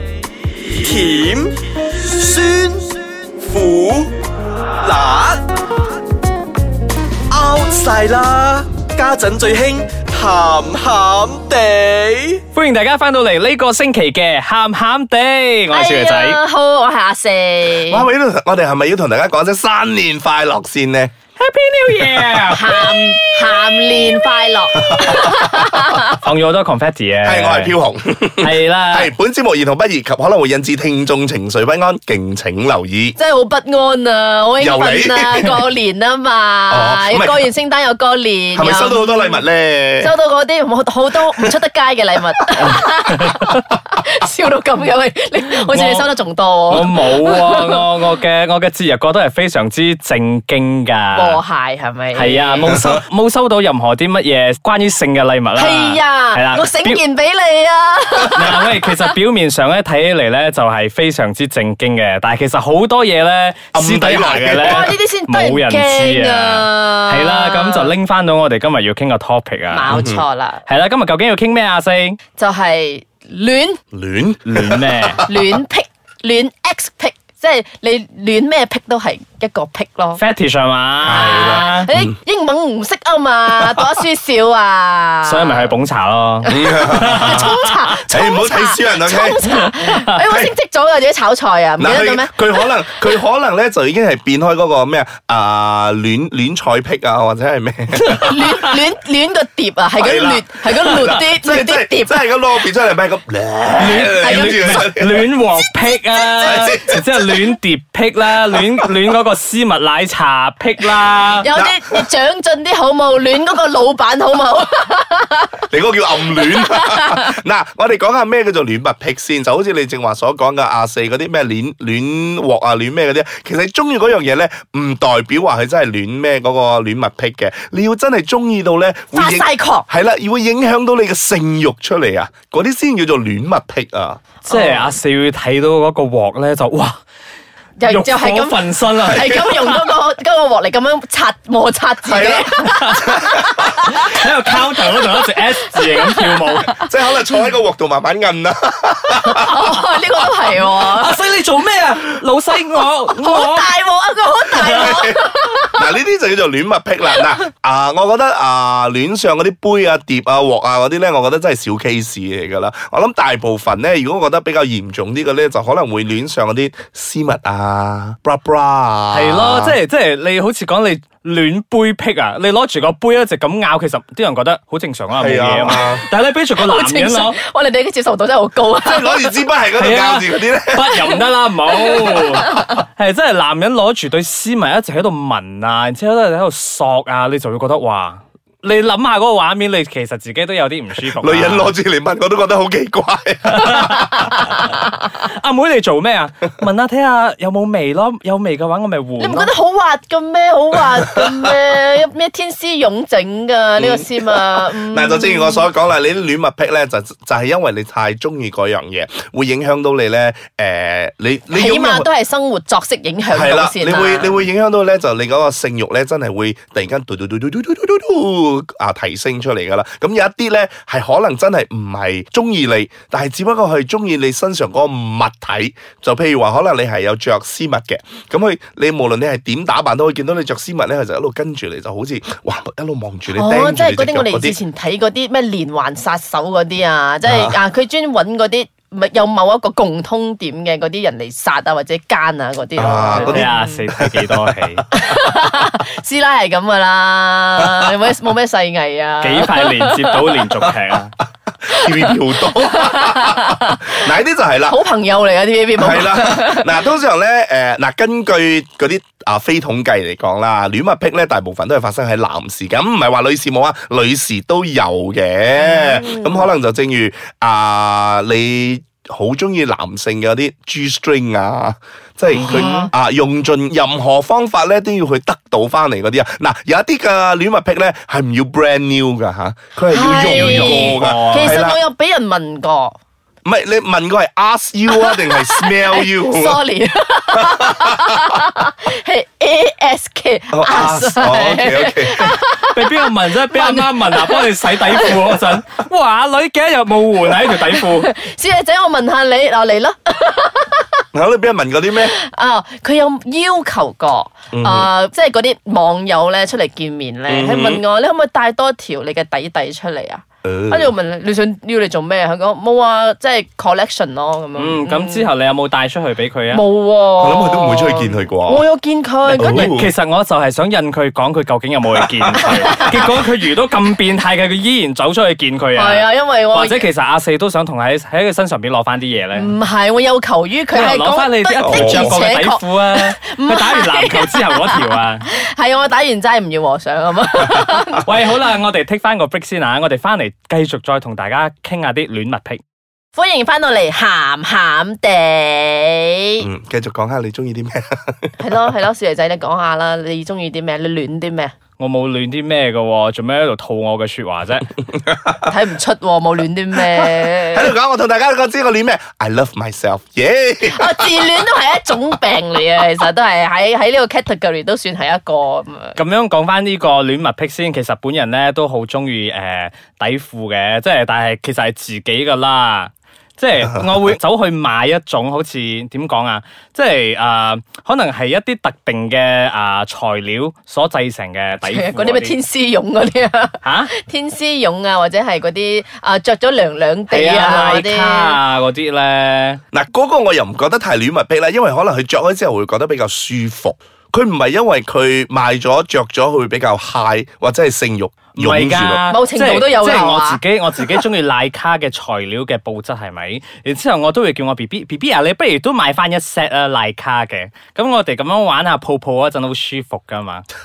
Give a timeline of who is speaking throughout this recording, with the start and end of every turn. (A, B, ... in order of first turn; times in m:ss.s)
0:00.6-0:04.1 A
0:04.8-0:05.4 A
0:07.3-0:12.4 A
0:12.5-0:16.4 B
0:15.7-0:18.0 C
0:17.7-0:21.1 D
0:21.4-0:23.0 B
0:22.5-0:26.2 C
0:24.9-0:25.6 D
0:26.1-0:27.7 B
0:27.2-0:33.2 D
0:28.4-0:29.1 B
0:33.2-0:39.4 C
0:34.6-0:35.5 D
0:36.7-0:37.5 D
0:38.5-0:40.1 D
0:40.0-0:47.8 C
0:43.1-0:43.5 B
0:45.7-0:46.0 B
0:46.7-0:51.4 B
0:51.1-0:52.7 C
0:52.1-0:57.0 B
0:55.5-0:58.8 C
0:58.3-1:10.0 B
1:03.7-1:04.9 D
1:04.6-1:07.9 C
1:09.7-1:10.6 C
1:09.9-1:10.2 D
1:10.6-1:12.2 B
1:12.4-1:13.8 C
1:13.9-1:15.2 D
1:14.4-1:15.2 B
1:15.2-1:20.2 C
1:20.2-1:21.9 B
1:21.0-1:22.1 D
1:21.1-1:25.7 C
1:25.2-1:27.6 B
1:26.5-1:32.7 C
1:26.5-1:27.5 D
1:28.1-1:29.6 D
1:29.8-1:30.1 B
1:30.2-1:30.5 D
1:31.8-1:38.4 D
1:38.0-1:38.7 B
1:38.1-1:42.3 C
1:40.0-1:45.2 D
1:43.8-1:51.5 B
1:43.9-1:44.8 C
1:46.3-1:47.2 D
1:51.4-1:55.6 C
1:51.5-1:52.1 D
1:55.7-2:14.2 D
1:56.2-1:57.2 C
2:09.1-2:09.8 C
2:14.4-2:17.0 B
2:14.5-2:14.9 C
2:17.8-2:26.8 C
2:17.8-2:19.9 B
2:22.0-2:23.9 D
2:22.6-2:23.2 B
2:23.8-2:26.8 B
2:26.7-2:29.8 D
2:29.1-2:31.2 C
2:30.4-2:33.7 B
2:33.1-2:35.8 C
2:34.6-2:49.8 D
2:49.1-2:57.4 B
2:55.1-2:56.0 D
2:56.6-2:59.3 C
2:58.8-3:01.1 D
2:59.8-3:11.7 B
3:01.8-3:02.8 C
3:11.0-3:14.3 D
3:13.4-3:19.5 B
3:19.2-3:25.7 C
3:23.8-3:32.1 D
3:31.5-3:34.4 C
3:33.3-3:54.6 D
3:53.3-4:03.8 C
3:57.2-3:57.6 D
4:02.8-4:04.5 D
4:03.1-4:04.9 B
4:04.9-4:10.4 C
4:09.2-4:11.1 B
4:11.6-4:14.8 D
4:11.7-4:14.0 C
4:14.7-4:16.8 C
4:15.8-4:41.8 D
4:25.6-4:26.5 C
4:32.3-4:32.9 B
4:32.4-4:32.9 C
4:39.9-4:42.9 C
4:40.1-4:41.6 B
4:43.4-4:46.6 D
4:44.9-4:55.4 C
4:47.3-4:48.2 D
4:50.5-4:52.4 D
4:52.6-4:58.1 B
4:57.4-5:01.0 C
5:01.1-5:02.1 D
5:02.0-5:15.3 C
5:04.5-5:04.9 D
5:07.3-5:07.8 D
5:10.4-5:10.9 D
5:14.6-5:16.6 B
5:16.5-5:19.7 C
5:17.2-5:18.6 D
5:19.3-5:19.9 D
5:19.4-5:29.5 B
5:22.0-5:22.9 D
5:25.8-5:26.8 C
5:29.3-5:38.1 C
5:30.7-5:35.2 B
5:31.6-5:32.2 D
5:38.0-5:42.6 B
5:43.1-5:46.5 C
5:46.4-5:48.4 D
5:48.4-5:51.5 C
5:51.8-5:54.7 B
5:54.9-5:55.5 D
5:55.4-5:57.7 C
5:56.9-6:01.3 D
6:00.7-6:06.0 C
6:06.0-6:22.3 B
6:21.6-6:28.4 C
6:23.6-6:23.9 B
6:27.1-6:29.6 B
6:29.7-6:39.0 D
6:38.3-6:50.4 B
6:39.1-6:40.4 C